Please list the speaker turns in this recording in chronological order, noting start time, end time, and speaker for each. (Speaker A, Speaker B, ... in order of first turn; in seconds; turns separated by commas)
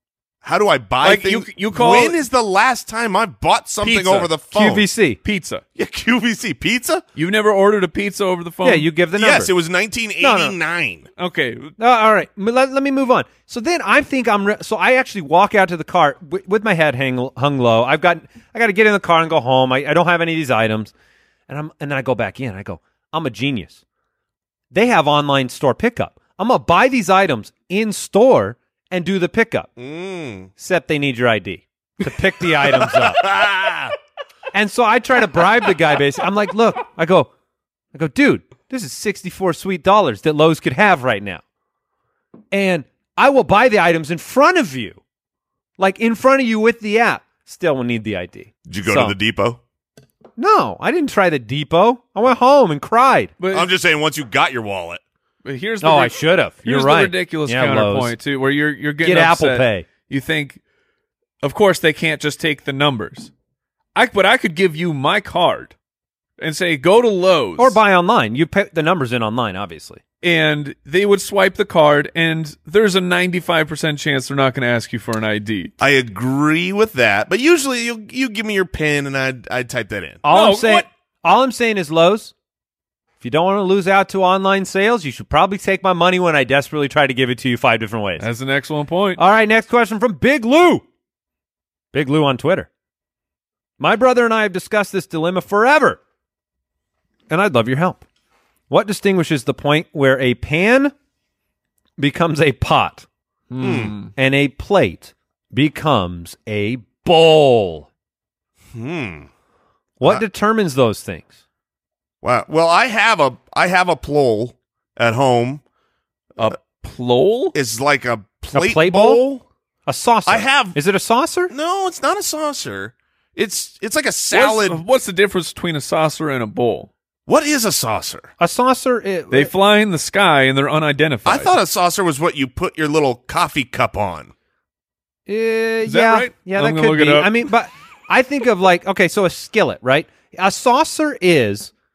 Speaker A: 0.4-4.9, Speaker B: 1.0-2.2, Speaker B: 3.8-4.3, Speaker C: 4.5-5.2, Speaker B: 5.2-5.6, Speaker A: 5.8-7.0, Speaker B: 7.2-8.9, Speaker C: 8.6-9.5, Speaker A: 9.2-11.1, Speaker C: 10.2-10.6, Speaker B: 11.2-11.7, Speaker C: 11.8-20.9, Speaker C: 21.5-23.8, Speaker C: 24.7-29.7, Speaker A: 29.8-30.5, Speaker C: 30.6-33.2, Speaker A: 32.6-33.9, Speaker C: 34.5-37.3, Speaker C: 37.9-41.4, Speaker C: 42.5-45.0, Speaker C: 45.8-49.2, Speaker A: 48.7-49.6, Speaker C: 50.4-53.3, Speaker B: 53.4-53.7, Speaker A: 53.5-55.0, Speaker B: 55.4-60.6, Speaker C: 55.8-58.1, Speaker C: 59.0-59.9, Speaker B: 61.4-63.3, Speaker B: 64.0-65.8, Speaker B: 66.4-67.8, Speaker C: 67.6-70.0, Speaker B: 70.2-75.7, Speaker A: 75.8-80.2, Speaker C: 80.2-82.3, Speaker B: 80.3-80.9, Speaker C: 83.2-88.3, Speaker B: 88.2-89.2, Speaker C: 89.2-90.8, Speaker C: 91.9-92.7, Speaker C: 93.8-96.0, Speaker C: 97.3-98.0, Speaker C: 98.7-100.9, Speaker C: 102.0-103.1, Speaker B: 103.5-104.1, Speaker A: 103.6-104.0, Speaker C: 104.2-107.9, Speaker A: 108.7-109.3, Speaker C: 110.0-111.3, Speaker A: 112.2-115.6, Speaker B: 116.4-117.5, Speaker A: 117.5-119.4, Speaker C: 118.5-119.2, Speaker C: 119.9-121.5, Speaker A: 120.3-120.8, Speaker A: 121.5-124.8, Speaker B: 124.3-126.9, Speaker A: 127.3-128.3, Speaker C: 128.4-129.5, Speaker B: 129.3-131.5, Speaker A: 131.3-134.3, Speaker C: 135.3-141.7, Speaker B: 135.9-137.5